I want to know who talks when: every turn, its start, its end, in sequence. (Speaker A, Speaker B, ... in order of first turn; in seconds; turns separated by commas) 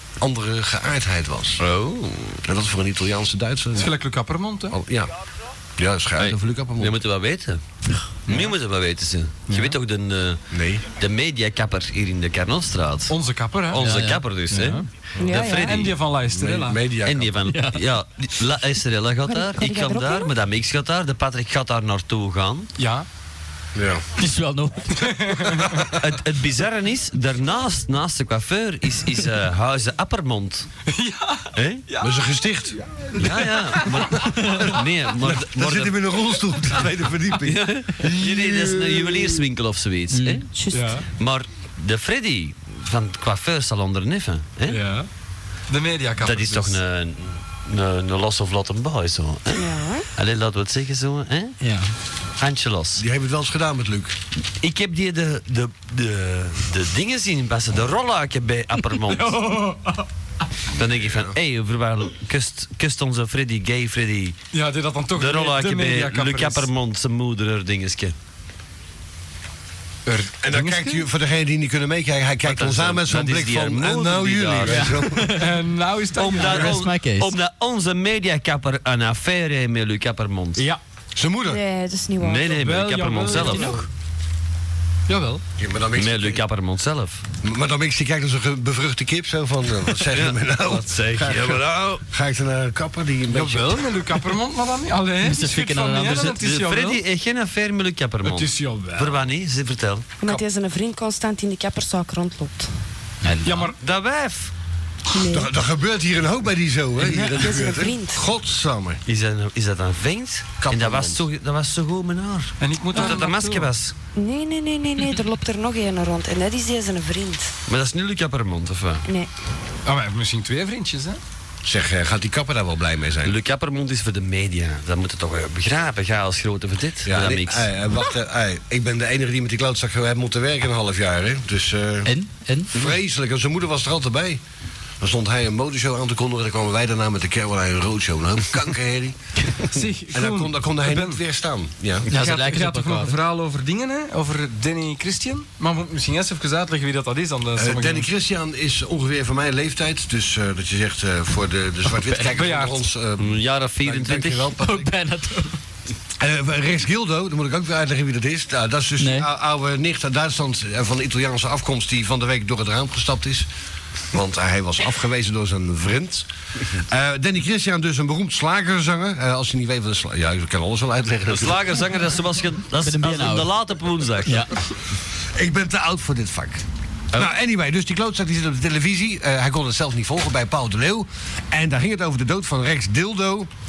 Speaker A: 0.2-1.6, Speaker B: 1.6-2.4, Speaker A: 2.4-3.9, Speaker C: 3.8-4.8, Speaker A: 4.7-5.1, Speaker A: 5.8-7.0, Speaker B: 6.2-7.6, Speaker B: 8.3-13.2, Speaker C: 9.5-9.8, Speaker A: 10.5-10.9, Speaker C: 13.1-13.9, Speaker B: 13.7-16.0, Speaker D: 13.8-14.2, Speaker C: 14.5-14.8, Speaker E: 15.2-15.8, Speaker C: 15.5-16.8, Speaker A: 16.3-17.4, Speaker B: 17.0-22.7, Speaker D: 17.5-17.8, Speaker E: 19.3-20.3, Speaker C: 22.8-23.1, Speaker A: 23.8-24.1, Speaker D: 24.2-25.6, Speaker C: 25.1-25.7, Speaker B: 25.9-30.7, Speaker C: 30.9-32.2, Speaker B: 31.6-31.9, Speaker A: 32.0-33.2, Speaker B: 33.1-36.0, Speaker C: 33.6-34.1, Speaker A: 35.2-39.5, Speaker B: 37.4-40.5, Speaker D: 40.1-40.5, Speaker E: 40.5-41.0, Speaker C: 40.7-41.1, Speaker B: 41.2-44.8, Speaker C: 44.7-45.1, Speaker C: 45.7-46.8, Speaker B: 46.2-51.6, Speaker E: 49.5-50.1, Speaker D: 51.6-51.9, Speaker B: 52.4-53.0, Speaker A: 53.0-54.2, Speaker B: 54.6-59.4, Speaker C: 59.1-60.1, Speaker B: 60.8-64.4, Speaker A: 61.1-61.3, Speaker C: 64.5-66.7, Speaker B: 65.2-68.2, Speaker C: 70.1-71.1, Speaker A: 70.4-75.4, Speaker B: 72.5-75.0, Speaker D: 74.8-75.5, Speaker C: 75.3-76.8, Speaker B: 76.2-80.7, Speaker D: 76.4-77.3, Speaker C: 80.6-80.8, Speaker A: 81.2-81.6, Speaker E: 81.5-82.5, Speaker B: 82.2-83.8, Speaker C: 82.5-83.9, Speaker C: 85.1-85.4, Speaker A: 85.6-86.4, Speaker B: 86.0-87.2, Speaker A: 87.4-91.6, Speaker B: 90.1-92.0, Speaker A: 92.1-94.0, Speaker C: 93.3-97.0, Speaker D: 95.2-96.3, Speaker B: 96.0-100.1, Speaker C: 98.2-99.2, Speaker E: 100.2-102.7, Speaker D: 103.2-103.7, Speaker C: 103.5-103.8, Speaker B: 103.8-104.5, Speaker E: 105.1-105.5, Speaker A: 105.3-109.0, Speaker E: 107.4-108.2, Speaker B: 109.1-113.9, Speaker A: 110.6-111.2, Speaker C: 112.6-113.7, Speaker E: 114.2-117.5, Speaker B: 117.7-119.0, Speaker C: 119.9-121.2, Speaker A: 121.6-123.4, Speaker B: 123.2-127.7, Speaker A: 127.0-132.1, Speaker D: 132.1-132.7, Speaker A: 132.7-134.4, Speaker A: 135.0-139.2, Speaker C: 139.7-141.2, Speaker A: 140.1-142.1, Speaker D: 142.1-143.2, Speaker C: 142.1-148.1, Speaker A: 147.6-154.9, Speaker C: 152.3-152.8, Speaker B: 153.2-154.5, Speaker D: 154.6-155.6, Speaker A: 156.2-163.5, Speaker D: 159.0-159.3, Speaker A: 164.1-166.3, Speaker A: 166.8-171.8, Speaker B: 171.3-174.5, Speaker D: 172.8-173.5, Speaker D: 174.2-174.5, Speaker A: 175.3-183.5